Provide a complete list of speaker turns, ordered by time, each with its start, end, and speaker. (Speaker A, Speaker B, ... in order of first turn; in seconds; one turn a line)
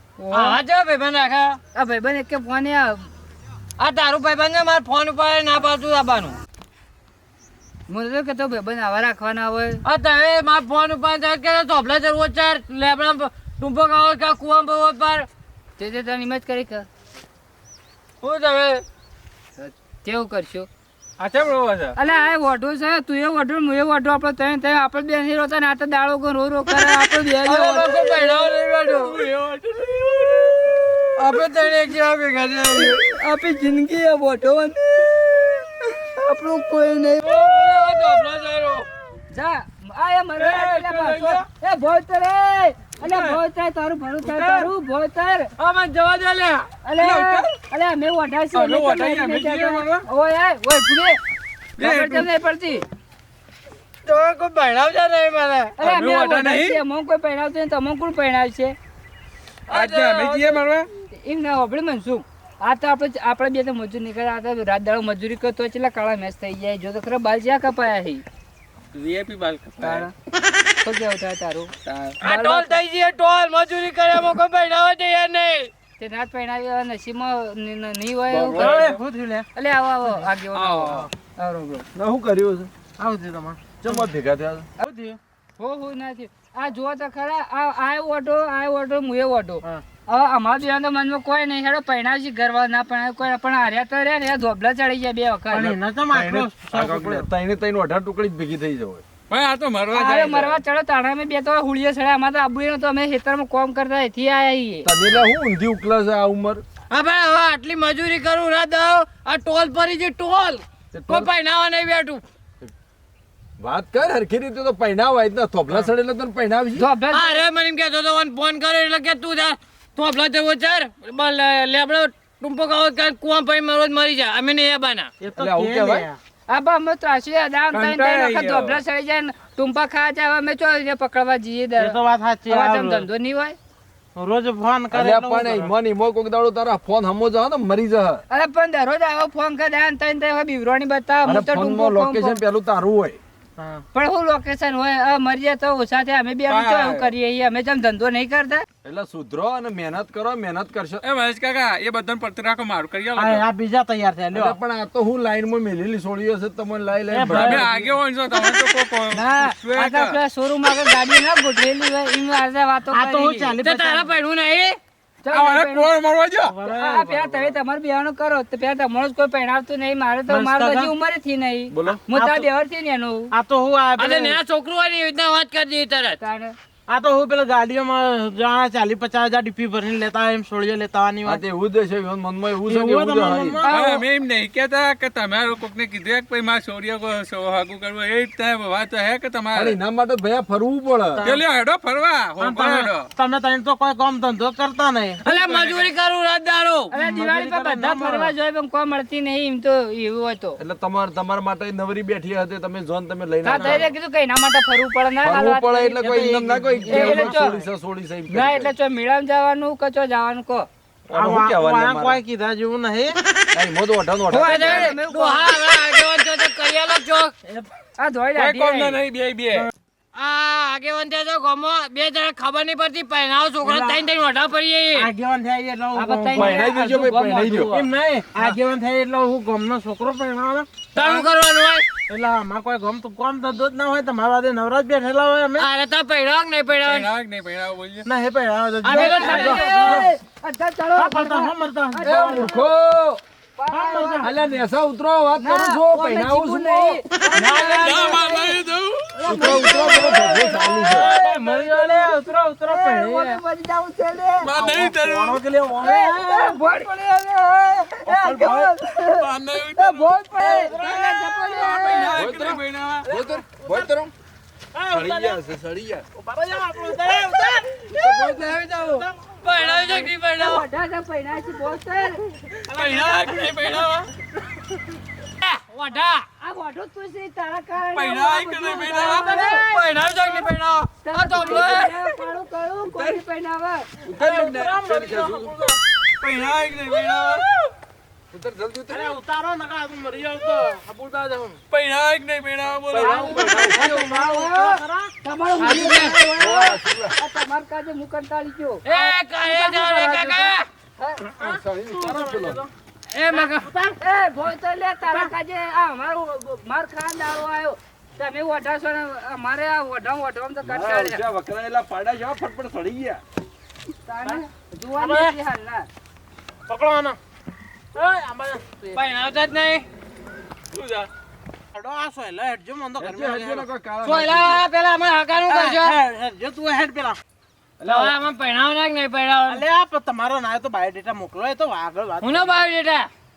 Speaker A: 0.2-0.6
Speaker B: 0.3-1.6
Speaker A: 1.7-3.1
Speaker B: 3.8-6.4
Speaker A: 7.9-9.8
Speaker B: 9.8-15.3
Speaker A: 15.8-16.9
Speaker B: 18.2-18.8
Speaker A: 20.0-20.7
Speaker C: 21.2-21.9
Speaker A: 21.9-28.2
Speaker B: 27.4-29.2
Speaker C: 28.9-30.7
Speaker B: 31.2-33.0
Speaker A: 32.7-37.3
Speaker B: 37.2-38.9
Speaker A: 39.3-45.5
Speaker C: 40.4-41.4
Speaker C: 43.0-43.4
Speaker B: 44.2-44.7
Speaker B: 45.6-46.7
Speaker A: 46.8-51.2
Speaker C: 47.0-47.5
Speaker C: 48.5-50.0
Speaker C: 51.8-52.3
Speaker A: 51.8-52.8
Speaker B: 54.0-55.7
Speaker A: 55.8-58.8
Speaker C: 55.8-56.8
Speaker B: 59.7-60.6
Speaker C: 59.7-60.9
Speaker A: 61.2-68.2
Speaker C: 68.9-70.1
Speaker A: 69.8-70.1
Speaker A: 70.8-71.7
Speaker C: 71.8-72.2
Speaker B: 72.2-75.7
Speaker A: 72.2-72.7
Speaker A: 76.0-78.8
Speaker C: 78.3-79.0
Speaker D: 78.5-79.5
Speaker A: 79.5-81.8
Speaker C: 80.5-81.1
Speaker E: 81.9-82.7
Speaker D: 83.0-84.0
Speaker E: 83.8-84.7
Speaker D: 84.8-85.2
Speaker A: 85.6-95.7
Speaker D: 95.5-97.3
Speaker E: 96.1-99.0
Speaker C: 99.3-100.6
Speaker A: 99.9-104.9
Speaker E: 104.8-106.6
Speaker B: 106.9-112.2
Speaker E: 110.9-111.3
Speaker E: 113.6-116.8
Speaker A: 116.8-117.4
Speaker B: 117.1-125.1
Speaker D: 125.2-126.2
Speaker E: 125.4-126.0
Speaker A: 126.5-133.6
Speaker C: 127.7-128.8
Speaker D: 131.8-133.1
Speaker D: 134.2-135.7
Speaker E: 134.9-138.2
Speaker A: 138.3-142.4
Speaker E: 141.2-143.2
Speaker D: 143.6-143.8
Speaker A: 143.9-148.6
Speaker C: 146.5-147.1
Speaker E: 148.8-151.0
Speaker C: 151.0-153.5
Speaker D: 153.2-154.6
Speaker E: 154.3-157.7
Speaker D: 157.1-157.8
Speaker C: 157.3-160.2
Speaker A: 159.1-163.5
Speaker D: 162.9-164.1
Speaker B: 163.6-164.8
Speaker A: 165.2-165.9
Speaker C: 165.3-166.6
Speaker D: 166.4-167.5
Speaker A: 166.6-173.3
Speaker D: 170.3-170.9
Speaker E: 171.7-172.0
Speaker D: 171.9-172.5
Speaker D: 173.3-174.4
Speaker B: 174.0-176.2
Speaker A: 176.2-176.5
Speaker D: 176.9-181.4
Speaker E: 181.2-183.6
Speaker D: 182.7-183.7
Speaker A: 183.6-184.0
Speaker C: 183.7-189.8
Speaker E: 189.5-191.3
Speaker D: 191.2-191.4
Speaker C: 191.2-193.1
Speaker D: 192.4-195.2
Speaker B: 195.2-196.9
Speaker C: 195.3-195.9
Speaker A: 196.9-200.6
Speaker D: 196.9-198.3
Speaker E: 200.6-203.9
Speaker A: 203.4-206.0
Speaker D: 203.5-203.8
Speaker E: 205.2-208.7
Speaker D: 206.0-207.6
Speaker A: 206.9-207.6
Speaker A: 208.3-210.7
Speaker E: 211.1-212.2
Speaker D: 211.1-213.2
Speaker E: 213.5-214.9
Speaker A: 214.3-215.6
Speaker B: 214.3-217.3
Speaker D: 217.4-217.7
Speaker A: 218.0-219.0
Speaker C: 218.3-219.7
Speaker B: 220.1-225.1
Speaker D: 223.6-224.1
Speaker D: 224.9-226.7
Speaker A: 225.9-227.8
Speaker E: 226.3-227.7
Speaker D: 227.7-231.3
Speaker B: 230.9-231.8
Speaker D: 232.1-235.7
Speaker B: 235.6-237.1
Speaker C: 236.8-238.1
Speaker D: 238.0-240.0
Speaker B: 238.8-240.1
Speaker A: 238.9-242.7
Speaker C: 239.6-239.9
Speaker D: 240.9-242.5
Speaker E: 242.0-243.2
Speaker A: 243.6-244.3
Speaker D: 243.7-244.3
Speaker E: 244.2-247.0
Speaker A: 245.4-252.1
Speaker B: 247.4-247.8
Speaker C: 247.8-249.1
Speaker E: 249.2-251.1
Speaker D: 249.8-253.4
Speaker A: 252.7-254.5
Speaker C: 254.4-255.4
Speaker D: 254.5-256.6
Speaker E: 255.6-255.9
Speaker A: 255.8-262.4
Speaker E: 258.1-258.6
Speaker C: 258.3-263.1
Speaker D: 260.4-261.4
Speaker E: 262.0-264.1
Speaker D: 263.3-263.8
Speaker D: 264.7-265.4
Speaker E: 264.9-266.0
Speaker D: 266.1-270.1
Speaker E: 267.9-268.6
Speaker B: 269.4-270.6
Speaker A: 269.9-272.2
Speaker D: 272.7-273.5
Speaker C: 272.7-274.1
Speaker B: 275.4-276.2
Speaker A: 276.4-280.5
Speaker C: 277.9-279.4
Speaker B: 279.2-281.9
Speaker A: 281.0-283.9
Speaker E: 282.9-283.1
Speaker E: 284.0-285.6
Speaker D: 284.1-285.8
Speaker C: 286.2-287.5
Speaker E: 288.3-289.1
Speaker D: 288.9-291.6
Speaker C: 291.7-293.9
Speaker E: 292.9-294.0
Speaker A: 293.0-301.4
Speaker D: 293.5-295.1
Speaker B: 295.6-296.2
Speaker D: 295.7-296.2
Speaker E: 296.4-297.2
Speaker B: 298.9-300.6
Speaker D: 301.4-302.7
Speaker E: 301.4-302.6
Speaker B: 303.1-303.7
Speaker D: 303.3-304.0
Speaker A: 304.0-311.2
Speaker E: 310.6-313.2
Speaker A: 314.0-315.9
Speaker D: 315.0-315.3
Speaker D: 316.7-317.2
Speaker D: 317.9-319.0
Speaker B: 318.9-319.9
Speaker C: 320.7-321.0
Speaker D: 321.7-323.7
Speaker E: 323.0-324.6
Speaker B: 324.0-326.0
Speaker D: 325.4-327.2
Speaker E: 327.8-328.1
Speaker B: 327.8-329.6
Speaker D: 329.4-332.6
Speaker B: 332.2-333.1